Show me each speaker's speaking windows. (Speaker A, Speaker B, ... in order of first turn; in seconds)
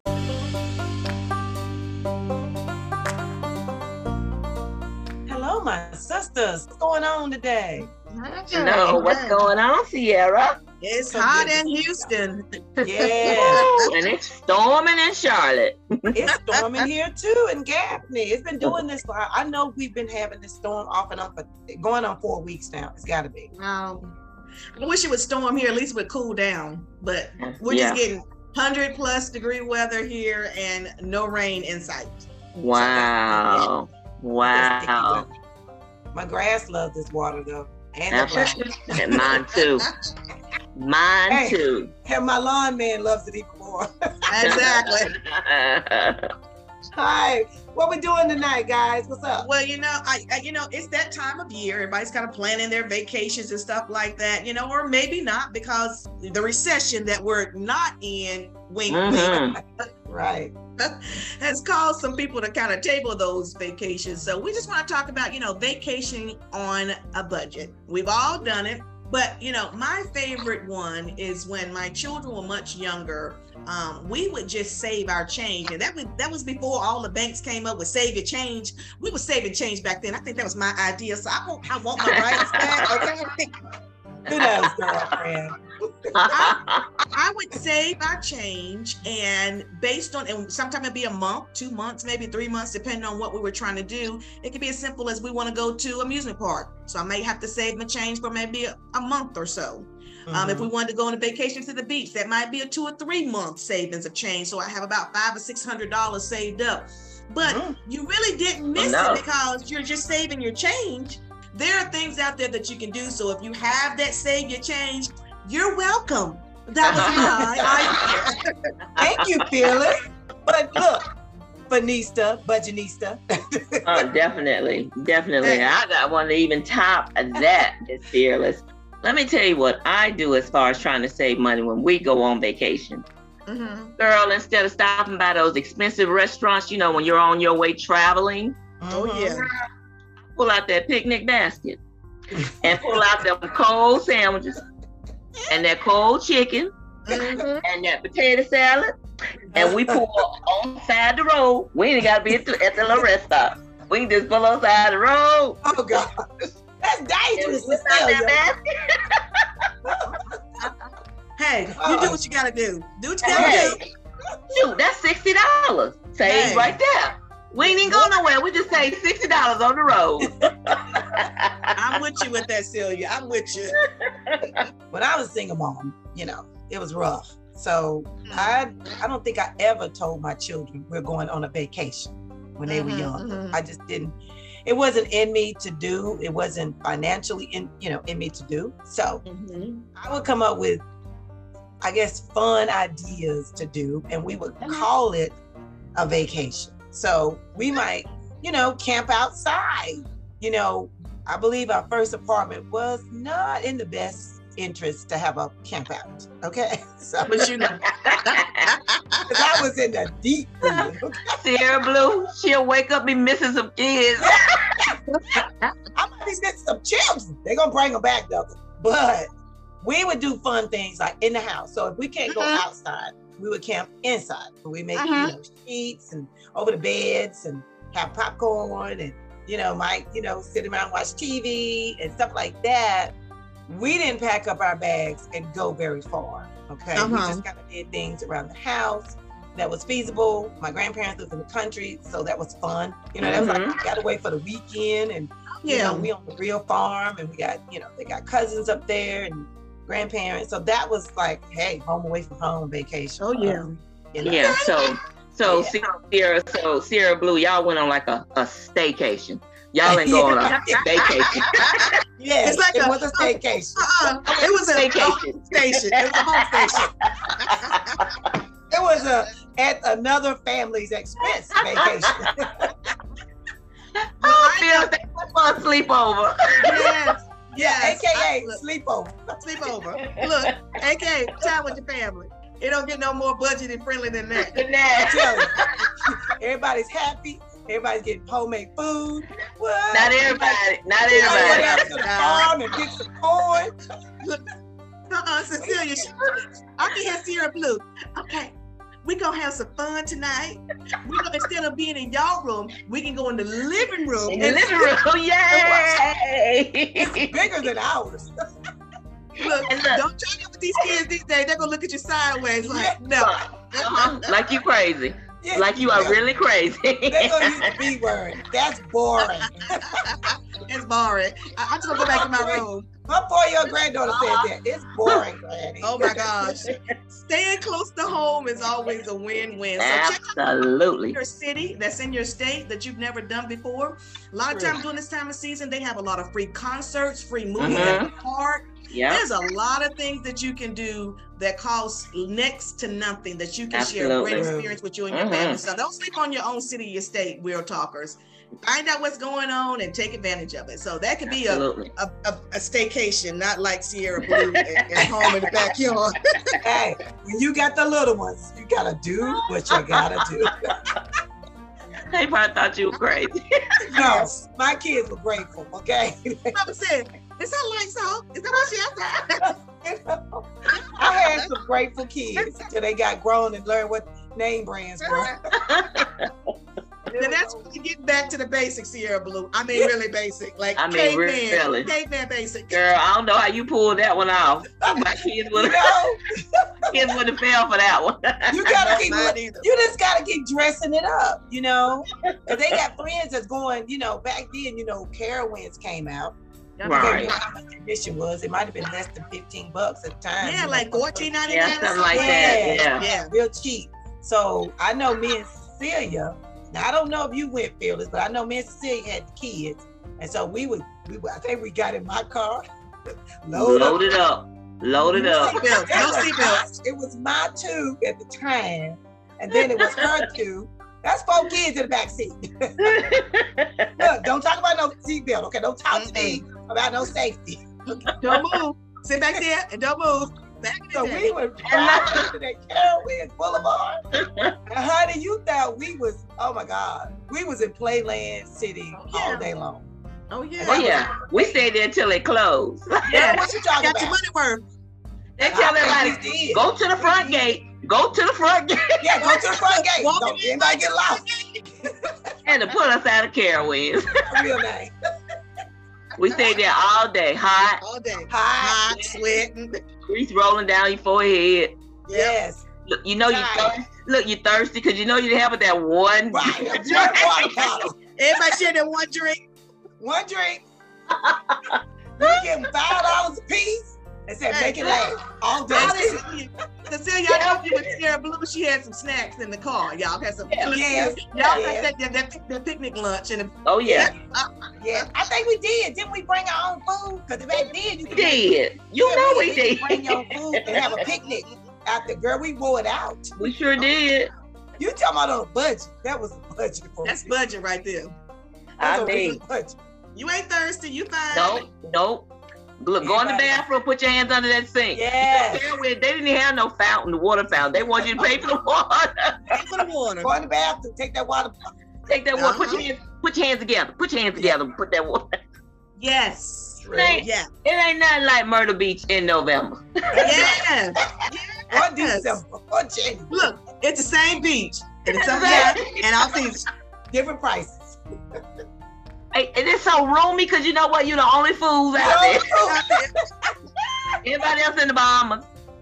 Speaker A: 5.3-7.9, 11.1-12.1, 12.8-13.7, 16.1-23.5, 32.7-33.7, 34.4-35.3, 36.1-38.6, 41.3-44.7, 46.9-49.5, 59.5-60.5, 84.3-85.9, 100.3-100.7, 107.4-107.8, 116.9-118.2, 119.0-121.0, 121.7-124.0, 138.8-139.5, 142.3-143.1, 147.1-147.4, 149.5-150.0, 155.6-156.1, 156.8-158.4, 159.8-160.1, 161.7-162.2, 163.3-163.8, 170.2-171.0, 174.9-189.2, 189.9-190.8, 191.8-195.3, 195.9-207.5, 209.3-211.4, 214.2-215.0, 215.9-219.3, 219.8-233.1, 233.7-254.6, 255.4-255.7, 259.8-261.4, 262.2-263.8, 268.7-272.7, 277.6-279.4, 285.0-293.7, 295.6-295.9, 304.4-304.9, 305.5-306.0, 307.0-308.3, 312.7-313.1, 315.4-316.2, 317.1-319.7, 322.0-326.3, 334.5-334.8, 337.6-337.9, 344.3-344.8, 356.6-360.6, 363.9-366.5, 369.4-370.4, 371.0-375.4, 377.1-377.6, 384.8-387.1, 388.5-396.3, 396.9-401.3, 402.1-412.6, 413.4-414.0, 415.1-422.4, 424.0-427.6, 430.9-434.0, 434.7-439.9, 440.6-441.6, 443.2-444.2, 445.4-446.7, 449.0-451.2, 451.9-452.1, 454.1-454.9, 458.3-458.9, 462.1-462.6, 463.2-463.7, 466.3-467.9, 470.0-470.6, 472.2-476.2, 480.7-481.9, 484.8-493.3, 494.8-497.3, 498.8-499.7, 503.0-503.6, 504.9-505.7, 510.2-511.6, 516.8-517.2, 520.1-520.6, 521.7-523.5, 525.4-525.8, 527.1-528.0, 531.9-532.8
Speaker B: 8.1-9.4, 10.8-13.9, 16.3-16.9, 23.5-24.1, 24.8-32.3, 44.3-45.1, 49.4-59.9, 60.8-83.5, 86.3-86.6, 87.1-118.5, 125.4-125.7, 133.5-133.9, 138.9-139.5, 147.1-147.6, 161.4-163.8, 166.2-166.8, 167.6-168.2, 171.8-173.8, 178.2-178.5, 182.7-183.6, 189.2-189.8, 194.6-194.9, 207.2-209.3, 215.1-215.8, 222.3-222.6, 224.9-225.3, 236.9-237.4, 245.6-246.1, 253.2-253.7, 254.4-254.9, 260.5-261.9, 262.4-268.0, 274.2-274.9, 276.6-278.6, 279.4-284.6, 291.1-292.5, 294.2-294.4, 295.1-304.7, 309.4-314.4, 319.2-322.9, 325.8-330.3, 331.1-356.6, 363.9-364.3, 366.5-369.5, 370.7-371.5, 372.4-372.6, 375.0-375.3, 377.1-382.9, 388.7-389.7, 396.8-397.4, 400.4-403.3, 415.0-416.7, 425.9-426.4, 428.2-431.3, 438.9-439.4, 440.3-440.8, 443.1-444.6, 447.0-447.4, 449.6-451.6, 456.2-456.6, 457.4-459.8, 462.1-462.3, 466.9-467.3, 468.2-469.4, 474.5-475.0, 475.7-485.1, 490.9-491.5, 493.9-494.2, 497.0-498.1, 500.1-501.7, 509.5-510.3, 512.4-512.8, 516.0-517.5, 520.2-522.4, 523.3-526.6, 532.6-533.1
Speaker C: 8.5-10.6, 13.2-16.1, 27.4-28.0, 32.5-35.2, 38.1-39.9, 40.8-41.9, 44.4-46.2, 58.9-59.6, 82.1-82.8, 84.3-85.1, 86.1-86.8, 108.8-109.2, 116.8-117.4, 119.0-119.4, 123.8-133.0, 134.0-138.5, 140.3-141.8, 142.6-144.6, 145.5-146.7, 147.6-148.9, 149.5-155.6, 157.4-158.6, 163.3-163.9, 164.5-171.5, 174.3-174.6, 208.0-208.7, 210.7-214.4, 243.2-243.8, 254.2-261.9, 264.3-267.7, 271.7-272.3, 274.2-276.9, 280.0-280.5, 284.5-285.5, 289.9-291.8, 304.3-307.5, 309.6-310.0, 313.2-317.7, 324.1-324.5, 329.8-331.2, 337.6-338.1, 338.9-339.2, 343.7-344.5, 345.1-345.6, 351.3-351.9, 354.4-354.8, 359.2-360.5, 362.1-363.4, 375.7-376.3, 380.8-381.9, 382.7-386.0, 386.9-388.7, 396.8-397.3, 401.5-403.0, 413.5-416.0, 419.6-420.2, 422.8-423.9, 431.7-432.3, 440.7-443.4, 445.4-449.3, 452.4-454.4, 456.1-457.8, 458.9-459.2, 460.1-461.8, 462.9-467.7, 471.2-471.8, 477.3-477.9, 480.5-480.7, 483.6-484.1, 488.1-491.0, 493.4-494.3, 498.8-499.4, 501.3-509.5, 512.1-515.2, 516.9-520.4, 525.2-526.0, 529.3-532.7, 534.2-535.5